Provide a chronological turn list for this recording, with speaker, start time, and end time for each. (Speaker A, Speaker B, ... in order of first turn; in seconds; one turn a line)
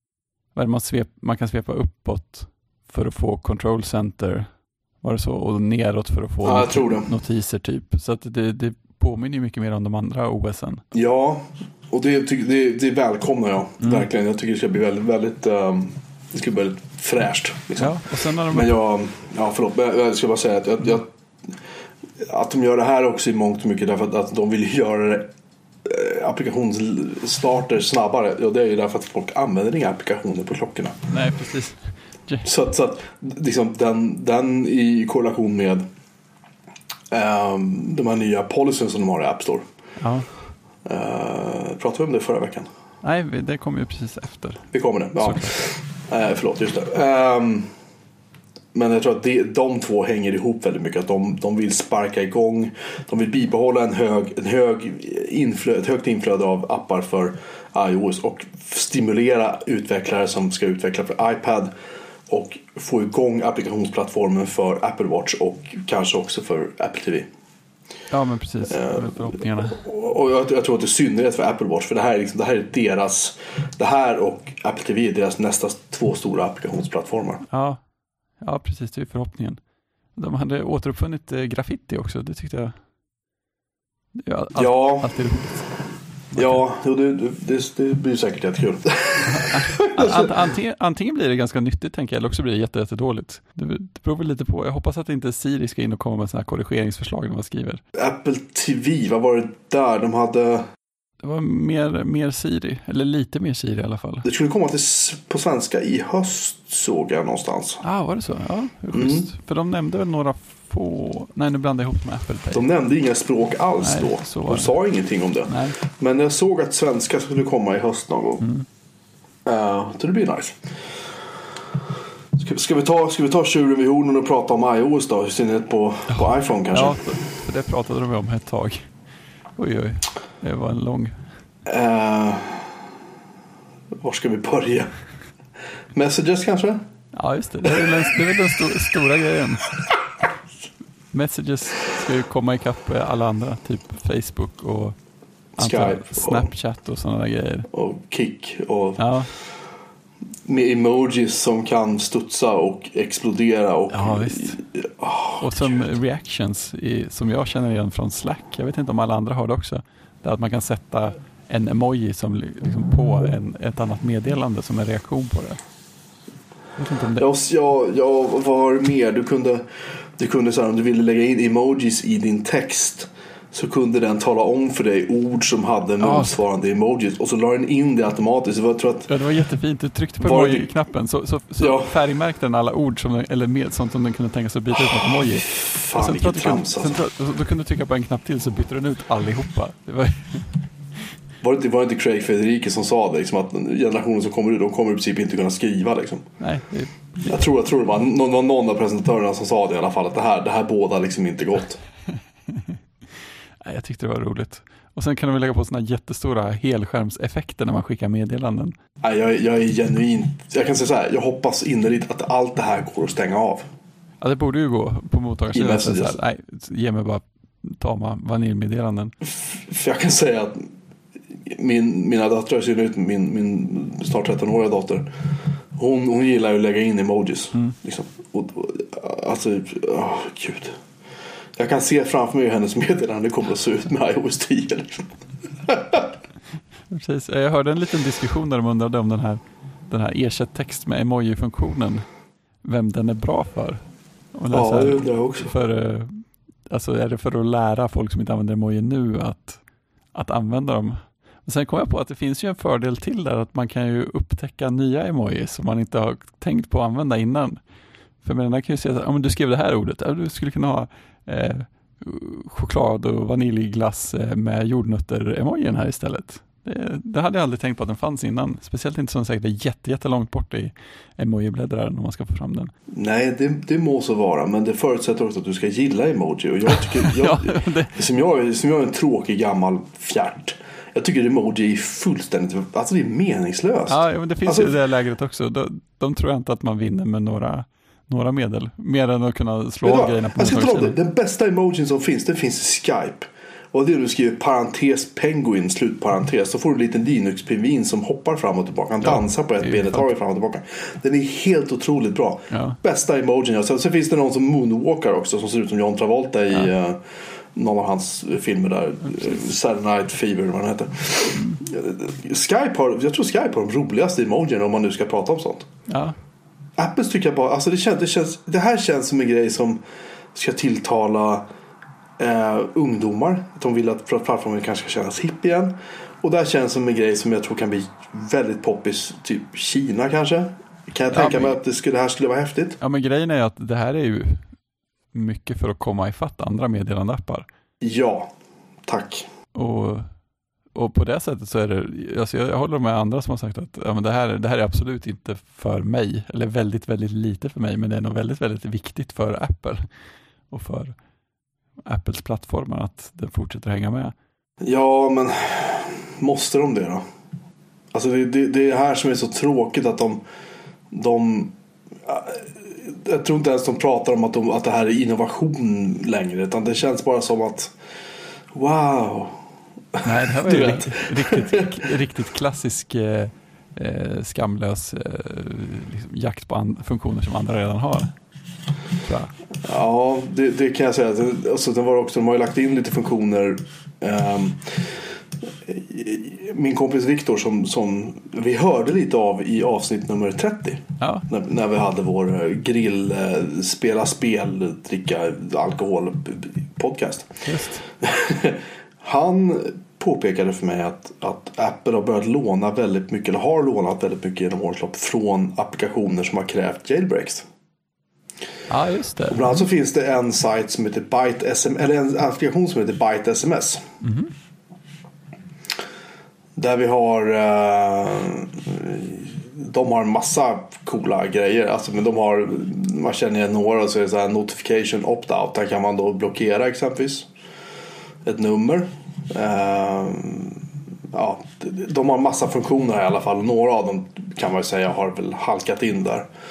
Speaker A: 0.5-10.8
Speaker B: 6.4-7.1
Speaker B: 10.9-21.1
Speaker A: 13.8-14.1
Speaker A: 17.8-18.8
Speaker B: 22.2-25.3
Speaker B: 25.8-31.0
Speaker A: 31.1-32.5
Speaker B: 32.4-35.8
Speaker B: 37.1-39.6
Speaker A: 40.0-40.3
Speaker B: 40.8-42.7
Speaker A: 43.0-44.7
Speaker B: 44.7-47.7
Speaker A: 45.2-45.5
Speaker B: 48.7-61.7
Speaker B: 62.3-67.3
Speaker A: 68.1-69.8
Speaker B: 68.7-77.4
Speaker A: 77.5-79.6
Speaker A: 80.1-82.7
Speaker A: 84.1-86.6
Speaker B: 84.5-85.1
Speaker B: 86.3-90.3
Speaker A: 89.3-97.8
Speaker B: 97.9-100.6
Speaker A: 101.2-104.2
Speaker B: 104.2-107.8
Speaker A: 107.8-112.6
Speaker B: 108.9-109.3
Speaker B: 112.5-118.5
Speaker A: 113.8-114.8
Speaker A: 115.5-115.8
Speaker A: 118.4-118.7
Speaker B: 119.4-120.6
Speaker B: 122.4-127.1
Speaker A: 126.1-128.9
Speaker A: 129.6-131.2
Speaker B: 131.7-132.7
Speaker B: 134.0-134.9
Speaker B: 135.9-136.8
Speaker A: 137.1-139.7
Speaker A: 141.1-145.0
Speaker B: 145.6-146.5
Speaker A: 145.6-147.7
Speaker B: 147.7-149.1
Speaker A: 149.0-149.3
Speaker B: 150.4-155.8
Speaker A: 153.9-154.6
Speaker A: 155.4-165.6
Speaker A: 166.8-167.3
Speaker B: 167.2-169.6
Speaker B: 170.2-179.1
Speaker A: 176.0-176.3
Speaker A: 179.1-190.6
Speaker B: 180.2-180.7
Speaker B: 181.6-181.9
Speaker B: 185.0-187.0
Speaker B: 191.4-196.2
Speaker A: 196.4-197.4
Speaker B: 197.3-201.8
Speaker A: 202.5-202.8
Speaker A: 203.6-208.7
Speaker B: 209.0-213.7
Speaker A: 214.2-219.1
Speaker B: 215.5-216.2
Speaker B: 219.2-220.7
Speaker B: 221.5-225.1
Speaker B: 225.8-230.8
Speaker B: 231.6-236.1
Speaker A: 236.9-242.1
Speaker A: 242.6-249.6
Speaker B: 244.5-245.5
Speaker A: 250.1-257.6
Speaker A: 258.2-272.7
Speaker B: 272.9-284.7
Speaker A: 276.7-277.9
Speaker A: 283.9-290.9
Speaker B: 289.8-307.0
Speaker A: 299.0-300.1
Speaker A: 302.5-302.8
Speaker B: 307.5-315.7
Speaker A: 311.3-311.6
Speaker A: 315.9-316.1
Speaker B: 316.8-319.8
Speaker B: 320.3-321.4
Speaker B: 322.2-332.8
Speaker A: 331.1-331.6
Speaker A: 332.8-334.5
Speaker A: 335.1-337.5
Speaker B: 337.8-338.3
Speaker B: 338.9-339.3
Speaker A: 339.5-340.1
Speaker A: 340.7-349.9
Speaker A: 350.5-350.9
Speaker A: 351.8-354.1
Speaker B: 354.6-357.0
Speaker B: 357.9-360.2
Speaker B: 360.9-361.5
Speaker B: 362.1-367.7
Speaker B: 368.5-369.4
Speaker B: 369.9-371.7
Speaker A: 370.0-378.1
Speaker A: 379.0-379.3
Speaker B: 379.6-384.8
Speaker B: 385.6-397.4
Speaker A: 391.0-391.3
Speaker A: 397.4-397.9
Speaker B: 398.0-407.4
Speaker A: 408.7-409.6
Speaker B: 409.3-413.8
Speaker A: 414.0-414.3
Speaker B: 416.6-427.3
Speaker B: 428.2-430.6
Speaker B: 431.1-436.3